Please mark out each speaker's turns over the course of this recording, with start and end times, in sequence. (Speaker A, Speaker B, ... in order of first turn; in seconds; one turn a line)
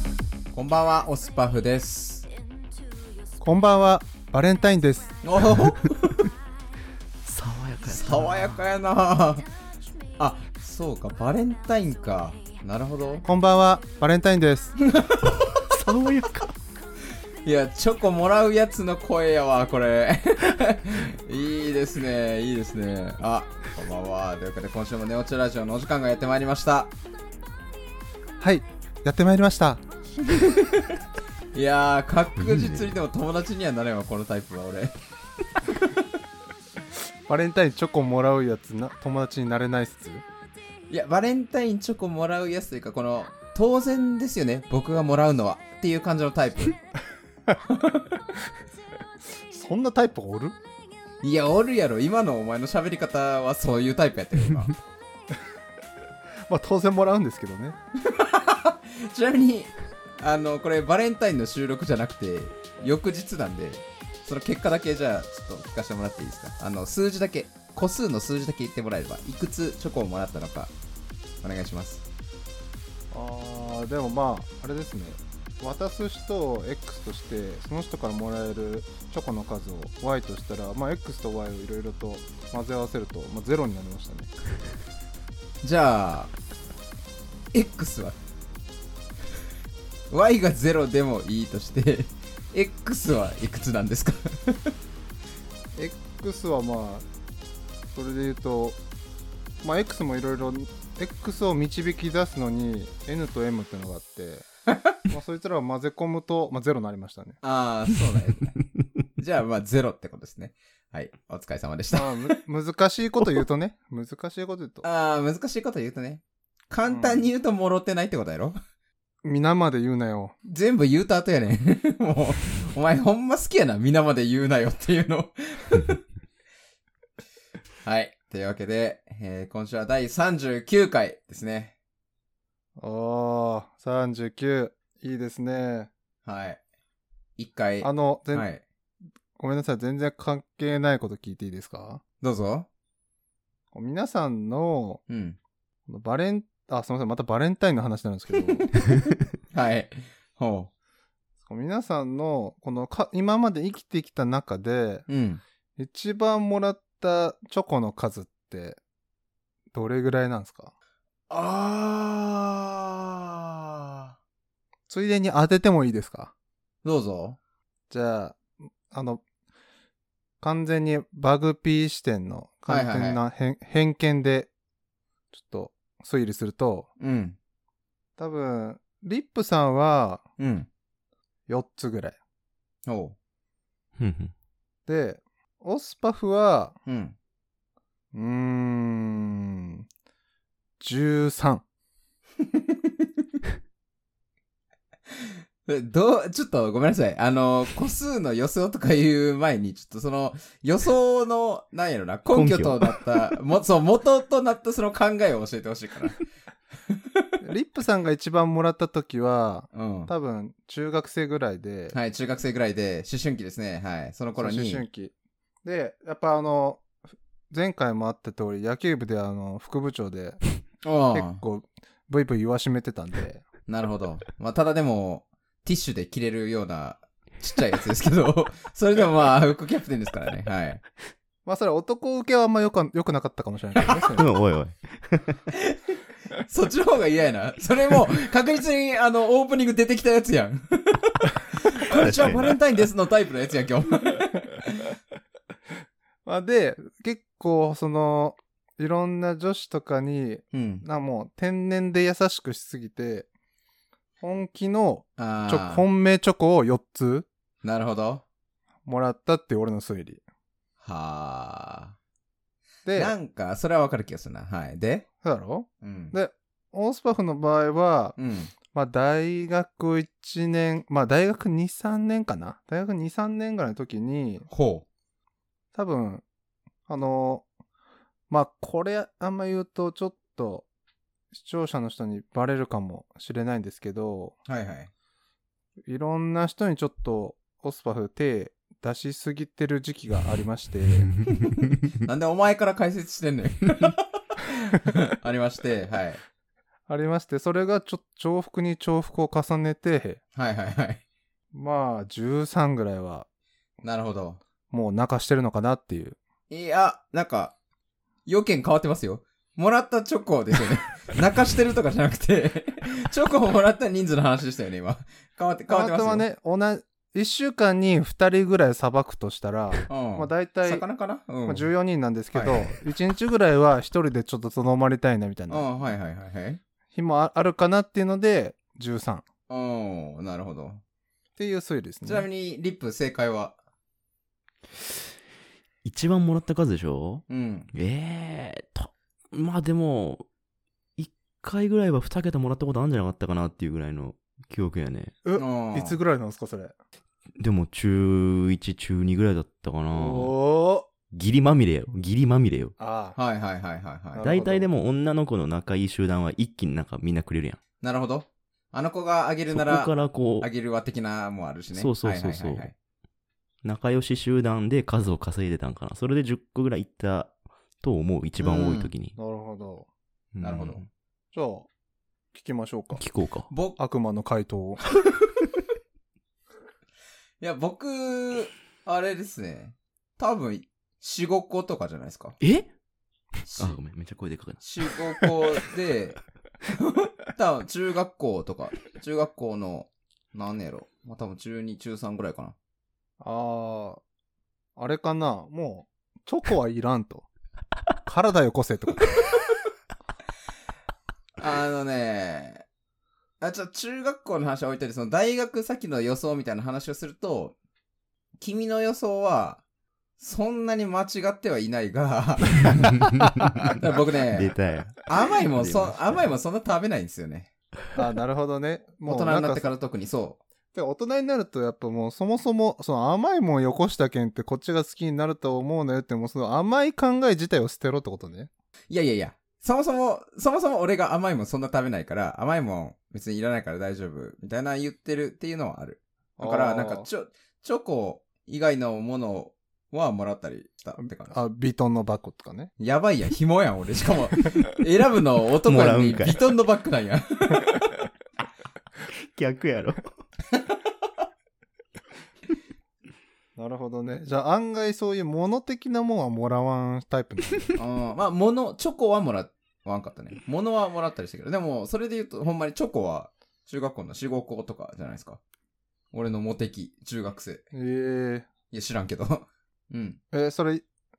Speaker A: 0.5-2.3
Speaker B: 3.4-5.1
Speaker A: 5.2-6.3
Speaker C: 7.2-8.6
Speaker A: 7.9-9.5
Speaker A: 10.2-13.2
Speaker B: 13.2-14.8
Speaker A: 14.8-15.6
Speaker C: 15.7-16.6
Speaker A: 17.4-26.9
Speaker B: 28.4-29.8
Speaker A: 30.3-30.9
Speaker A: 31.5-34.9
Speaker C: 32.4-33.0
Speaker B: 37.3-40.2
Speaker A: 40.9-46.8
Speaker A: 47.7-48.0
Speaker B: 49.5-50.6
Speaker A: 51.2-54.8
Speaker B: 56.5-57.8
Speaker A: 58.1-70.7
Speaker A: 71.4-72.0
Speaker B: 73.1-84.3
Speaker A: 85.6-86.3
Speaker A: 87.5-88.2
Speaker A: 90.1-94.7
Speaker B: 95.8-97.1
Speaker B: 97.9-98.8
Speaker B: 99.6-104.5
Speaker B: 105.1-107.4
Speaker A: 107.4-108.6
Speaker A: 109.2-112.3
Speaker B: 111.9-114.8
Speaker A: 114.8-118.6
Speaker B: 116.8-117.3
Speaker B: 119.2-120.3
Speaker A: 120.5-126.0
Speaker A: 127.8-131.7
Speaker B: 132.8-135.9
Speaker A: 136.2-136.6
Speaker A: 137.4-138.6
Speaker B: 137.8-138.5
Speaker B: 139.4-142.0
Speaker A: 142.2-142.7
Speaker B: 143.7-145.0
Speaker A: 145.1-145.4
Speaker B: 145.9-148.7
Speaker A: 149.5-150.7
Speaker B: 151.4-155.1
Speaker A: 155.1-155.4
Speaker B: 155.8-158.8
Speaker B: 159.7-160.7
Speaker A: 161.3-164.1
Speaker B: 164.9-166.3
Speaker A: 166.8-167.4
Speaker B: 167.9-169.2
Speaker B: 170.4-174.5
Speaker A: 172.7-173.2
Speaker B: 175.3-176.9
Speaker A: 177.0-177.4
Speaker B: 178.2-180.2
Speaker A: 180.4-180.7
Speaker B: 181.5-182.2
Speaker A: 182.9-183.2
Speaker C: 184.0-184.3
Speaker B: 184.9-186.8
Speaker A: 186.9-187.2
Speaker B: 188.1-189.9
Speaker B: 190.8-191.6
Speaker A: 195.7-206.2
Speaker C: 202.3-203.0
Speaker A: 206.9-207.2
Speaker B: 207.4-212.0
Speaker A: 209.7-210.1
Speaker A: 211.9-214.8
Speaker B: 214.4-215.1
Speaker B: 215.6-216.8
Speaker B: 217.5-220.4
Speaker A: 220.8-221.4
Speaker B: 221.1-223.4
Speaker A: 223.7-230.8
Speaker B: 231.4-234.3
Speaker C: 234.2-235.4
Speaker A: 236.5-244.9
Speaker C: 241.9-242.6
Speaker B: 246.3-253.3
Speaker A: 250.5-250.8
Speaker B: 254.2-257.3
Speaker A: 255.2-255.8
Speaker A: 257.6-258.2
Speaker B: 258.9-260.2
Speaker A: 260.8-261.9
Speaker B: 262.9-263.1
Speaker A: 262.9-265.1
Speaker B: 265.2-268.2
Speaker A: 265.8-266.1
Speaker A: 268.2-268.5
Speaker B: 268.7-274.5
Speaker A: 274.5-274.9
Speaker B: 275.8-276.2
Speaker B: 276.9-277.4
Speaker B: 278.3-280.7
Speaker B: 281.3-284.4
Speaker A: 284.5-284.9
Speaker B: 285.9-291.1
Speaker A: 291.9-296.2
Speaker B: 296.9-300.2
Speaker A: 300.4-301.0
Speaker B: 301.5-303.3
Speaker A: 303.8-304.4
Speaker B: 304.7-306.2
Speaker A: 306.5-307.5
Speaker A: 308.3-316.2
Speaker B: 315.7-320.9
Speaker A: 319.9-321.7
Speaker B: 321.4-325.7
Speaker A: 322.3-322.8
Speaker A: 325.5-326.6
Speaker B: 326.9-329.2
Speaker A: 329.5-330.8
Speaker B: 331.4-332.3
Speaker A: 332.1-333.6
Speaker C: 335.8-340.3
Speaker A: 337.3-337.7
Speaker C: 341.0-345.1
Speaker B: 345.2-346.7
Speaker A: 345.4-346.0
Speaker C: 347.4-350.4
Speaker B: 349.9-350.9
Speaker C: 351.1-352.8
Speaker B: 352.8-353.2
Speaker A: 353.2-354.3
Speaker B: 354.1-354.7
Speaker C: 354.2-357.6
Speaker A: 357.8-362.7
Speaker C: 359.5-360.5
Speaker C: 361.7-362.7
Speaker C: 363.6-369.1
Speaker A: 368.4-368.9
Speaker B: 369.2-369.9
Speaker C: 370.4-370.9
Speaker A: 370.4-370.8
Speaker B: 371.3-371.7
Speaker B: 372.3-373.0
Speaker C: 373.0-373.5
Speaker A: 373.5-373.8
Speaker B: 373.8-374.8
Speaker A: 377.4-382.4
Speaker C: 382.4-382.7
Speaker A: 383.5-383.8
Speaker C: 383.6-384.6
Speaker A: 384.6-386.2
Speaker A: 386.7-392.5
Speaker B: 393.2-394.0
Speaker B: 394.8-397.3
Speaker B: 398.1-399.2
Speaker A: 401.4-402.6
Speaker A: 403.4-407.6
Speaker A: 408.4-409.6
Speaker A: 410.2-413.1
Speaker C: 413.1-413.5
Speaker A: 413.6-417.5
Speaker C: 414.3-416.2
Speaker B: 417.9-419.7
Speaker A: 419.1-420.4
Speaker B: 420.7-428.5
Speaker A: 428.9-441.4
Speaker B: 436.4-437.1
Speaker B: 441.0-442.7
Speaker A: 442.8-447.8
Speaker C: 445.6-446.4
Speaker C: 449.2-450.1
Speaker B: 453.6-457.8
Speaker A: 457.8-465.4
Speaker A: 466.1-467.7
Speaker B: 467.7-468.5
Speaker A: 468.7-470.2
Speaker B: 470.3-470.8